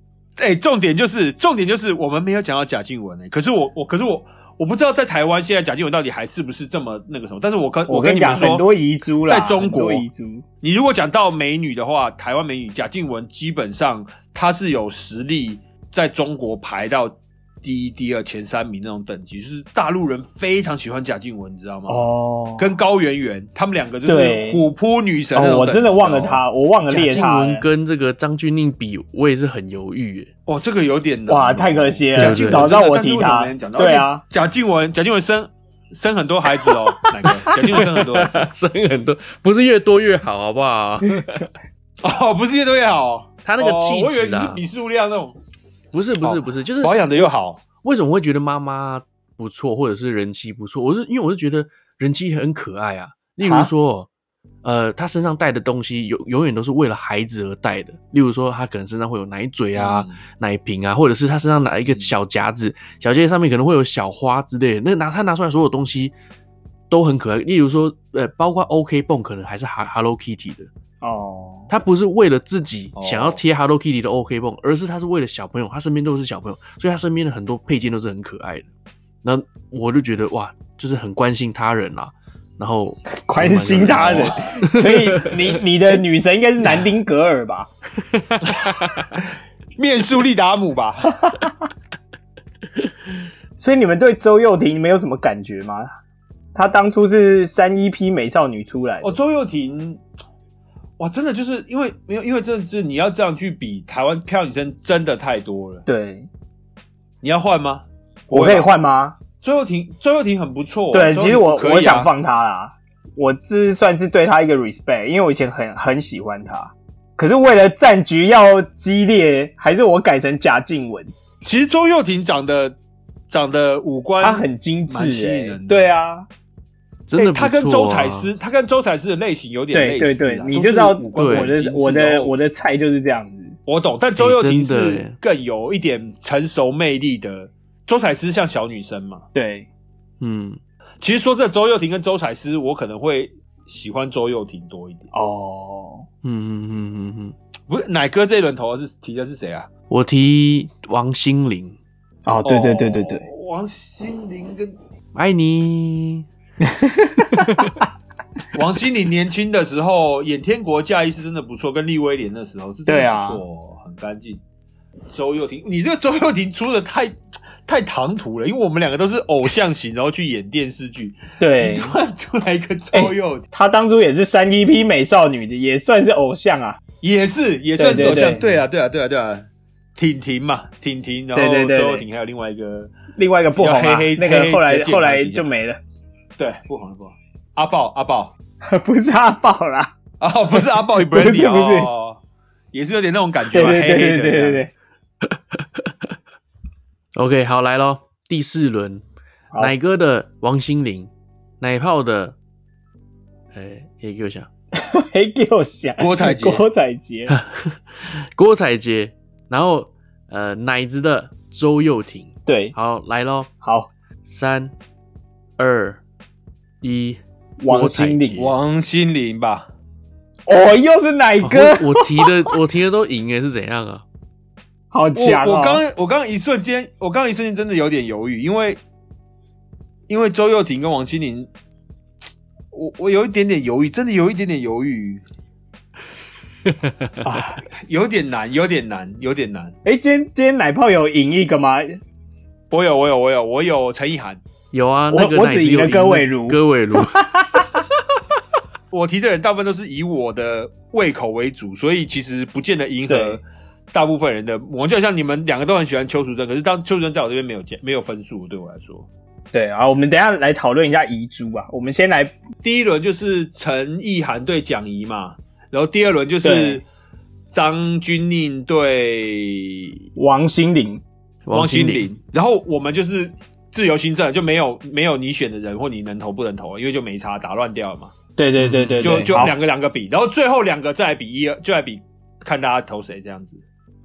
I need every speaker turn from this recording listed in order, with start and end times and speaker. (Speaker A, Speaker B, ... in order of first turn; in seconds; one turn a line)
Speaker A: 0.4-8.7
Speaker B: 7.9-10.4
Speaker A: 9.2-10.1
Speaker A: 10.6-22.1
Speaker B: 21.9-22.8
Speaker A: 22.6-26.4
Speaker B: 24.1-24.6
Speaker B: 25.3-27.6
Speaker C: 26.9-30.3
Speaker A: 30.5-38.5
Speaker B: 31.3-34.2
Speaker C: 32.1-32.7
Speaker C: 37.5-41.5
Speaker A: 42.0-45.4
Speaker C: 43.4-44.6
Speaker C: 45.9-47.2
Speaker A: 46.2-47.6
Speaker C: 47.8-54.1
Speaker B: 53.4-53.7
Speaker C: 54.6-66.1
Speaker A: 59.7-60.2
Speaker C: 66.9-70.7
Speaker B: 71.0-71.7
Speaker C: 71.7-78.7
Speaker A: 73.0-73.4
Speaker C: 79.2-85.6
Speaker B: 83.2-87.7
Speaker A: 84.0-84.4
Speaker C: 88.1-89.2
Speaker A: 88.5-91.2
Speaker B: 91.2-91.5
Speaker B: 93.6-95.9
Speaker B: 96.5-99.2
Speaker A: 99.0-100.0
Speaker A: 101.0-105.8
Speaker B: 105.9-106.3
Speaker A: 107.2-108.7
Speaker B: 108.3-109.2
Speaker A: 109.4-112.1
Speaker B: 110.9-121.1
Speaker A: 121.4-122.8
Speaker A: 123.3-125.9
Speaker B: 124.2-126.3
Speaker C: 127.1-128.3
Speaker A: 127.2-132.3
Speaker B: 129.7-133.6
Speaker C: 131.2-131.5
Speaker A: 133.7-139.2
Speaker C: 134.2-135.2
Speaker B: 139.3-139.7
Speaker C: 140.2-140.6
Speaker A: 141.0-145.1
Speaker B: 145.1-146.1
Speaker C: 146.2-147.3
Speaker A: 147.7-149.7
Speaker C: 149.9-151.8
Speaker B: 152.2-153.2
Speaker A: 152.4-154.8
Speaker C: 155.1-156.3
Speaker B: 156.6-157.5
Speaker C: 157.4-157.7
Speaker A: 158.5-164.4
Speaker B: 162.9-163.4
Speaker A: 165.1-173.5
Speaker B: 171.4-171.9
Speaker B: 172.9-176.8
Speaker A: 177.0-179.4
Speaker B: 177.8-178.4
Speaker A: 179.9-182.9
Speaker B: 181.3-182.1
Speaker B: 183.1-185.8
Speaker A: 183.6-185.5
Speaker A: 186.4-188.3
Speaker B: 188.6-189.9
Speaker A: 190.2-192.2
Speaker B: 190.5-191.9
Speaker A: 192.7-194.7
Speaker B: 193.5-194.7
Speaker C: 195.2-195.9
Speaker C: 197.2-199.0
Speaker C: 199.6-202.4
Speaker C: 203.5-204.5
Speaker B: 204.7-207.3
Speaker A: 206.0-206.6
Speaker C: 207.3-213.5
Speaker B: 212.4-212.7
Speaker B: 213.6-213.9
Speaker C: 214.3-214.7
Speaker C: 215.6-216.0
Speaker C: 216.8-218.4
Speaker B: 217.6-218.5
Speaker A: 218.3-219.7
Speaker B: 220.4-222.5
Speaker C: 221.4-224.0
Speaker B: 224.9-225.8
Speaker A: 225.1-228.8
Speaker A: 230.1-231.5
Speaker A: 232.7-235.2
Speaker C: 236.8-237.2
Speaker B: 237.2-237.6
Speaker A: 237.8-239.7
Speaker B: 239.8-242.0
Speaker A: 242.7-244.4
Speaker C: 244.7-247.2
Speaker B: 245.1-247.7
Speaker A: 248.9-259.1
Speaker B: 253.1-253.4
Speaker B: 259.5-262.4
Speaker A: 262.6-266.8
Speaker B: 266.4-266.8
Speaker A: 267.5-270.0
Speaker B: 270.2-271.0
Speaker C: 271.5-272.1
Speaker A: 271.5-278.1
Speaker B: 278.4-279.6
Speaker C: 278.6-279.5
Speaker A: 279.0-283.6